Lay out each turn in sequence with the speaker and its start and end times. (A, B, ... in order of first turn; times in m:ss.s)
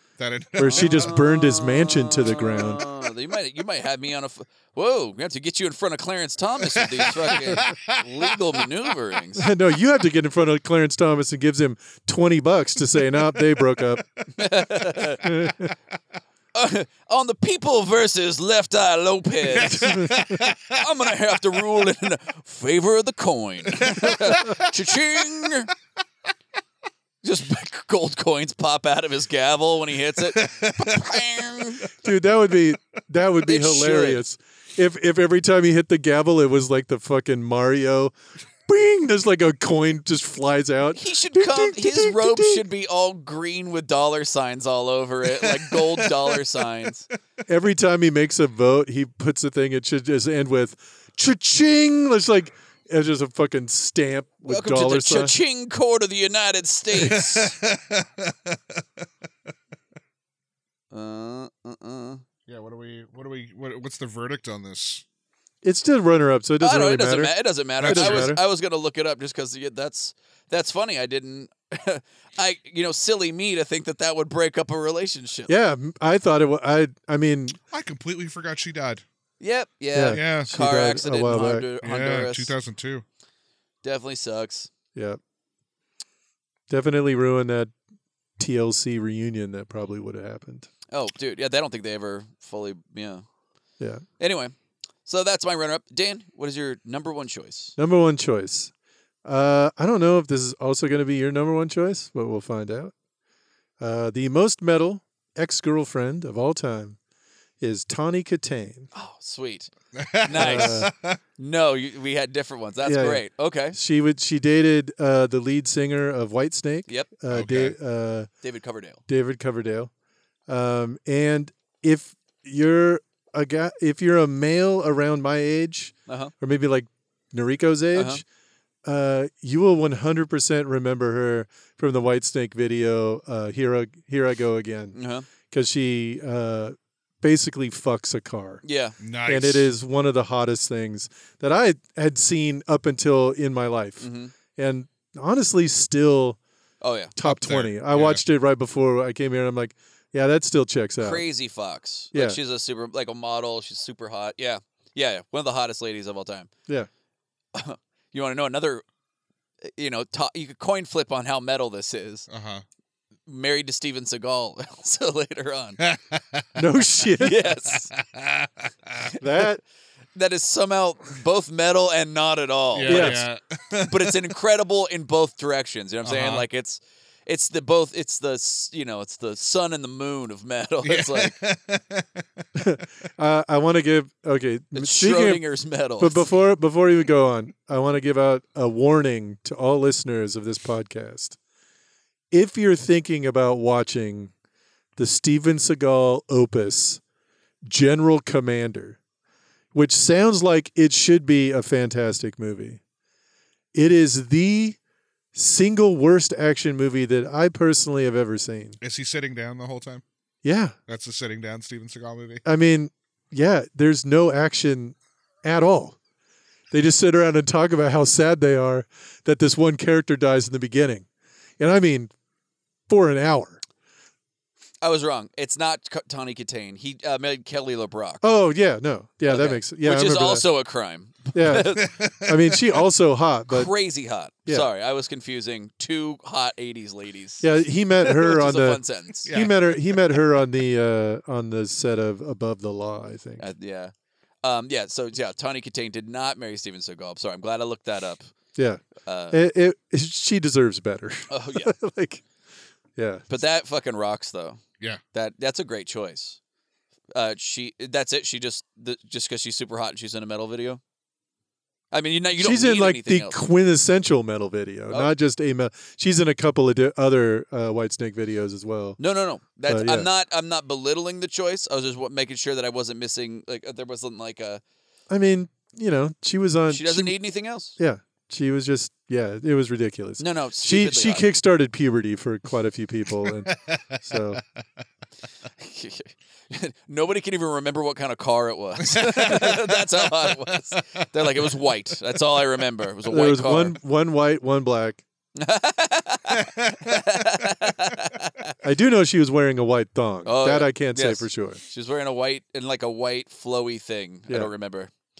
0:00.2-0:01.2 A
0:00.6-0:02.8 B
0:00.6-0:09.5 C
0:06.8-0:08.6 A
0:09.4-0:14.0 B
0:14.4-0:15.2 C
0:15.2-0:15.7 B
0:16.5-0:25.7 C
0:19.5-0:20.8 A
0:19.7-0:20.2 B
0:23.8-0:24.7 A
0:27.2-0:31.9 C
0:30.4-0:31.2 A
0:32.0-0:38.1 B
0:33.4-0:34.2 C
0:38.7-0:42.6 B
0:40.9-0:47.1 C
0:47.5-0:55.3 B
0:54.5-0:57.6 C
0:57.0-0:58.6 A
1:00.9-1:02.2 C
1:02.5-1:05.0 A
1:05.6-1:08.4 B
1:06.6-1:15.5 C
1:07.8-1:08.4 A
1:15.5-1:17.6 B
1:17.7-1:19.0 A
1:19.4-1:22.5 C
1:19.9-1:21.7 B
1:20.1-1:20.5 A
1:21.8-1:23.0 A
1:23.8-1:24.7 C
1:25.0-1:25.2 B
1:26.7-1:27.7 B
1:28.4-1:30.7 B
1:30.9-1:33.2 C
1:34.2-1:34.5 C
1:35.1-1:37.8 C
1:37.8-1:38.7 B
1:39.2-1:42.9 B
1:43.8-1:47.0 B
1:47.6-1:48.9 B
1:48.9-1:49.7 C
1:49.9-1:51.2 A
1:50.2-1:53.8 C
1:50.3-1:50.9 B
1:52.8-1:58.3 B
1:57.3-1:57.8 A
1:58.4-1:59.0 C
1:59.1-1:59.9 B
2:00.5-2:08.2 B
2:06.1-2:06.3 C
2:07.9-2:08.2 C
2:08.8-2:15.0 B
2:14.9-2:15.3 C
2:15.5-2:18.6 B
2:18.6-2:19.0 C
2:19.0-2:19.7 A
2:19.3-2:26.4 B
2:24.0-2:24.3 C
2:26.8-2:27.1 C
2:27.2-2:31.2 B
2:27.2-2:28.2 A
2:31.0-2:36.5 C
2:32.1-2:32.4 B
2:37.5-2:38.8 C
2:39.6-2:42.3 C
2:42.3-2:42.6 A
2:43.3-2:45.8 C
2:45.8-2:46.5 A
2:46.6-2:47.4 B
2:47.2-2:47.9 C
2:47.9-2:49.0 A
2:49.2-2:49.6 B
2:50.2-2:53.3 C
2:52.7-2:54.2 A
2:52.9-2:53.2 B
2:53.8-3:01.4 C
2:56.0-2:56.5 A
3:00.8-3:02.2 A
3:02.6-3:05.4 B
3:04.8-3:06.3 C
3:06.0-3:11.4 B
3:12.3-3:14.3 B
3:15.0-3:17.0 B
3:17.6-3:19.0 B
3:19.7-3:22.8 B
3:23.7-3:24.8 B
3:25.3-3:28.8 B
3:28.8-3:30.0 A
3:30.4-3:30.8 B
3:30.9-3:32.4 A
3:32.4-3:36.0 B
3:36.7-3:41.1 B
3:41.6-3:42.1 B
3:42.9-3:43.6 B
3:44.8-3:48.2 C
3:48.2-3:50.5 B
3:49.3-3:51.9 C
3:51.3-3:53.7 B
3:51.7-3:52.6 A
3:53.5-3:57.5 C
3:57.4-4:03.5 B
3:58.0-3:59.3 C
3:59.3-4:00.2 A
4:03.4-4:08.3 C
4:08.6-4:12.2 B
4:09.0-4:09.4 C
4:11.3-4:11.7 C
4:13.0-4:13.2 B
4:13.3-4:14.6 C
4:15.1-4:16.4 C
4:17.1-4:20.8 C
4:21.9-4:23.4 C
4:22.4-4:29.0 B
4:29.0-4:34.6 C
4:29.7-4:30.1 B
4:35.1-4:37.2 B
4:36.7-4:37.8 C
4:37.8-4:44.4 B
4:40.2-4:41.3 C
4:43.2-4:44.4 A
4:45.6-4:53.8 C
4:48.8-4:51.5 A
4:53.1-4:55.0 B
4:55.4-4:58.5 C
4:56.4-4:57.0 A
4:58.6-5:01.6 B
5:00.2-5:04.9 C